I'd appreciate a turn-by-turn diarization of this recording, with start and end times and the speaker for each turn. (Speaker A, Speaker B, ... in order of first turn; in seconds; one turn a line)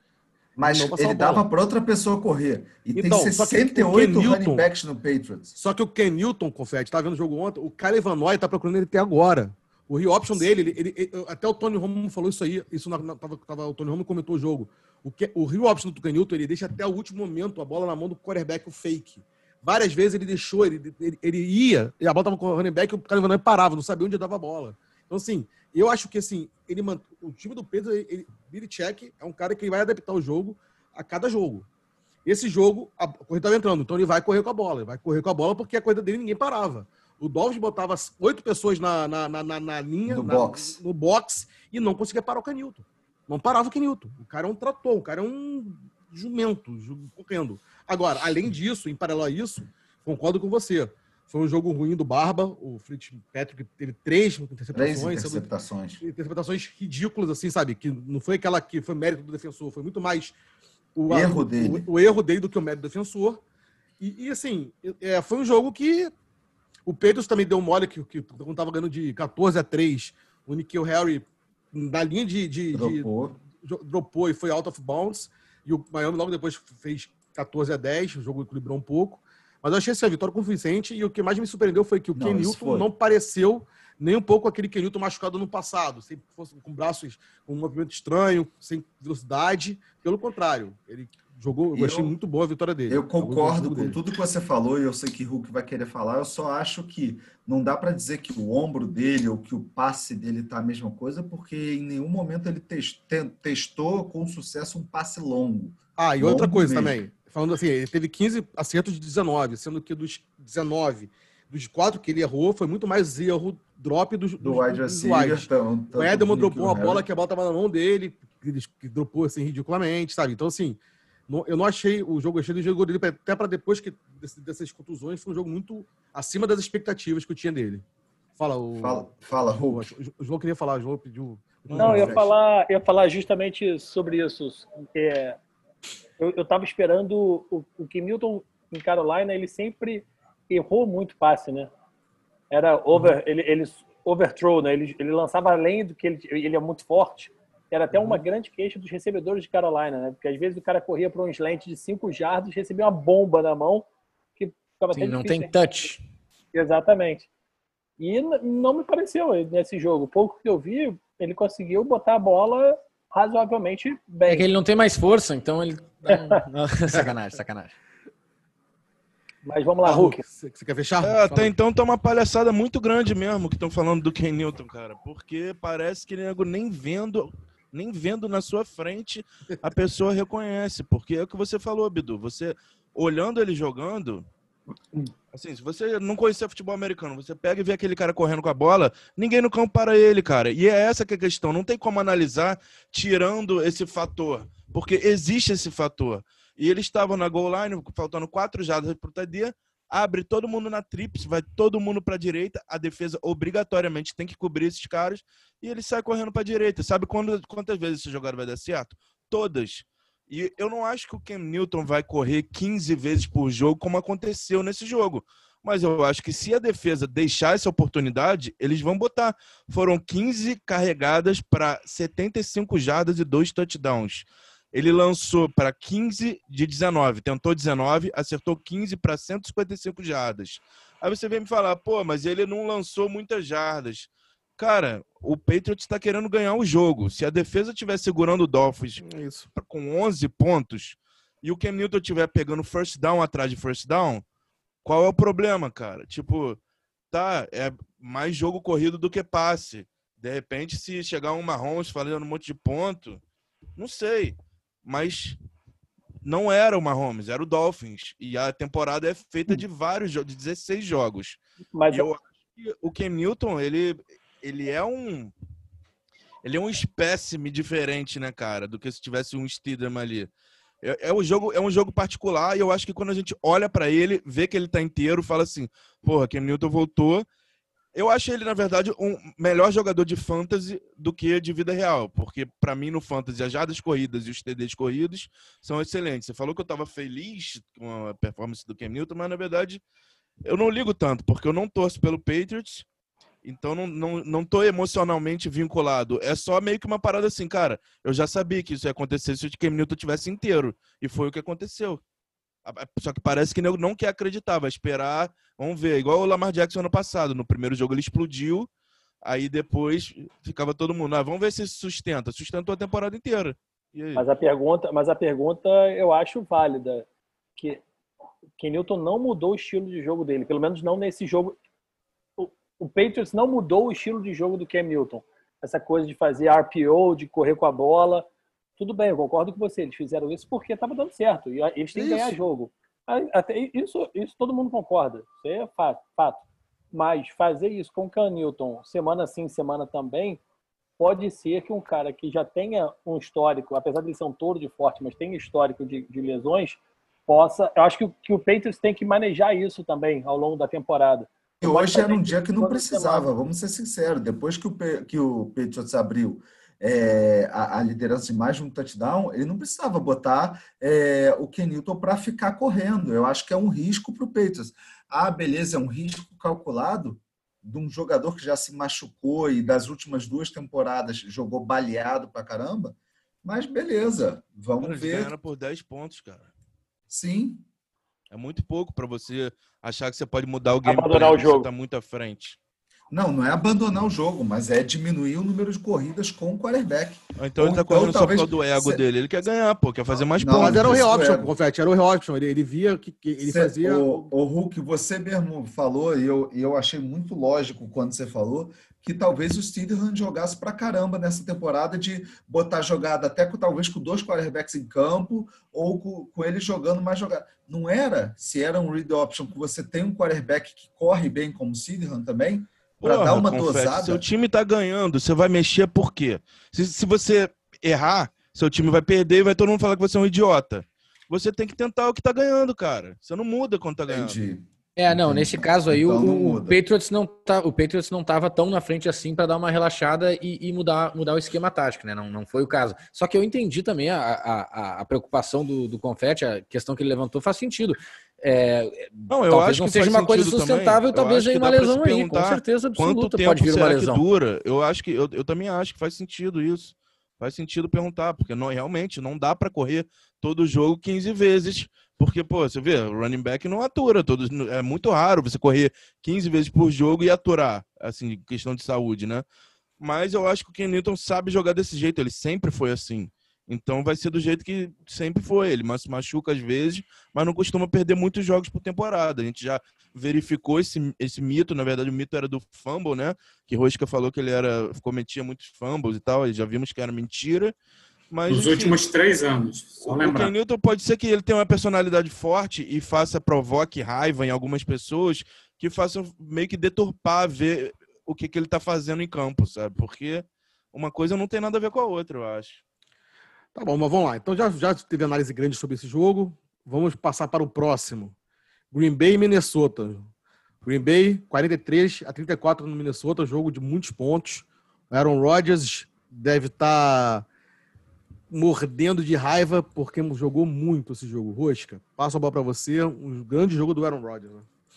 Speaker A: 0.6-5.6
Speaker B: 0.6-1.4
Speaker B: 2.9-4.7
Speaker B: 5.6-31.7
Speaker B: 32.2-55.5
Speaker A: 40.1-40.8
Speaker A: 54.7-56.0
Speaker B: 56.0-60.4
Speaker B: 61.0-63.4
Speaker A: 61.1-61.9
Speaker B: 64.0-66.1
Speaker B: 66.9-94.0
Speaker A: 72.7-73.4
Speaker A: 82.1-82.9
Speaker A: 91.7-92.1
Speaker A: 92.9-107.0
Speaker B: 106.0-127.8
Speaker A: 114.4-117.1
Speaker B: 128.4-132.3
Speaker A: 128.8-129.9
Speaker A: 131.7-132.3
Speaker C: 131.7-132.1
Speaker D: 131.8-135.4
Speaker D: 136.2-141.7
Speaker D: 142.5-155.5
Speaker E: 154.9-156.0
Speaker D: 156.5-157.3
Speaker D: 158.0-164.5
Speaker E: 164.2-167.7
Speaker D: 166.1-166.4
Speaker D: 169.4-170.2
Speaker B: 169.8-171.6
Speaker C: 171.0-184.3
Speaker C: 185.3-244.2
Speaker B: 239.0-239.5
Speaker C: 244.8-246.6
Speaker C: 247.1-253.2
Speaker C: 253.8-255.4
Speaker C: 256.2-261.4
Speaker D: 261.8-262.1
Speaker C: 261.9-265.3
Speaker C: 266.4-270.3
Speaker C: 270.8-277.3
Speaker C: 277.9-289.8
Speaker C: 290.4-292.9
Speaker C: 293.4-302.0
Speaker C: 302.6-308.7
Speaker C: 309.2-314.2
Speaker D: 314.1-317.8
Speaker D: 318.6-321.6
Speaker D: 322.4-340.4
Speaker B: 331.9-332.4
Speaker D: 341.0-353.3
Speaker A: 351.6-375.3
Speaker C: 374.8-376.5
Speaker A: 377.1-377.6
Speaker C: 378.3-382.6
Speaker D: 380.8-381.7
Speaker A: 383.1-389.0
Speaker C: 387.4-391.1
Speaker A: 390.4-391.5
Speaker B: 390.5-394.3
Speaker A: 393.4-414.2
Speaker C: 413.0-424.4
Speaker A: 424.1-426.8
Speaker E: 425.0-444.2
Speaker C: 439.3-459.4
Speaker C: 460.0-477.7
Speaker C: 478.3-479.0
Speaker F: 478.5-480.5
Speaker C: 480.0-492.8
Speaker B: 493.8-498.3
Speaker B: 498.9-500.3
Speaker B: 500.8-507.5
Speaker B: 508.5-514.7